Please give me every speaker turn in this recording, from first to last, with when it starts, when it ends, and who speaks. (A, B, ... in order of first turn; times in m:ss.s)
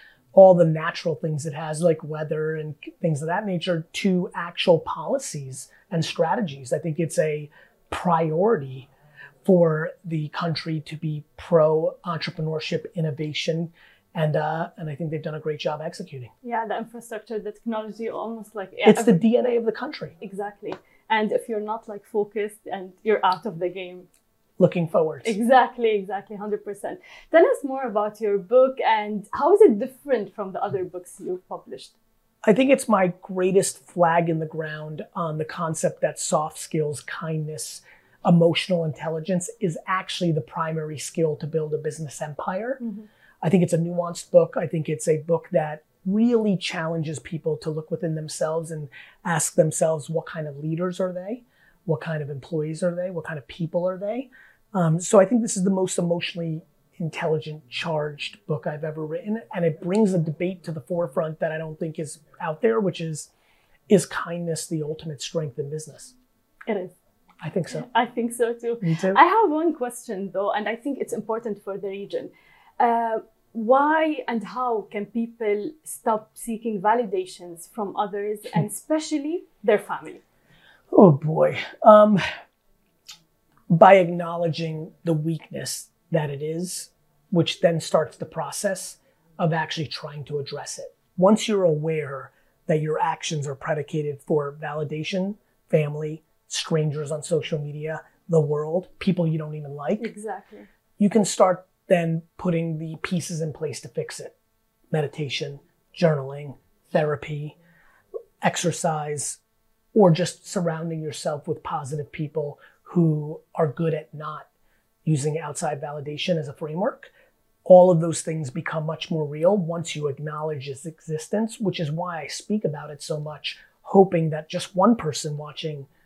0:00.3-0:08.9 A
0:09.4-0:16.3 A
0:16.4-0:19.2 B
0:18.8-0:20.2 A
0:20.2-0:24.1 B
0:24.6-0:25.3 A
0:25.2-0:31.9 B
0:32.4-0:42.8 A
0:42.8-0:43.1 B
0:43.4-1:03.3 A
1:03.9-1:06.1 A
1:06.7-1:06.9 B
1:07.4-1:07.9 A
1:07.7-1:20.2 B
1:08.8-1:09.2 A
1:20.9-1:22.2 A
1:23.7-1:40.1 A
1:40.0-1:40.7 B
1:41.0-1:44.3 A
1:44.9-1:47.6 A
1:48.4-1:49.4 A
1:49.9-1:54.5 A
1:55.0-1:57.1 A
1:57.6-2:05.9 A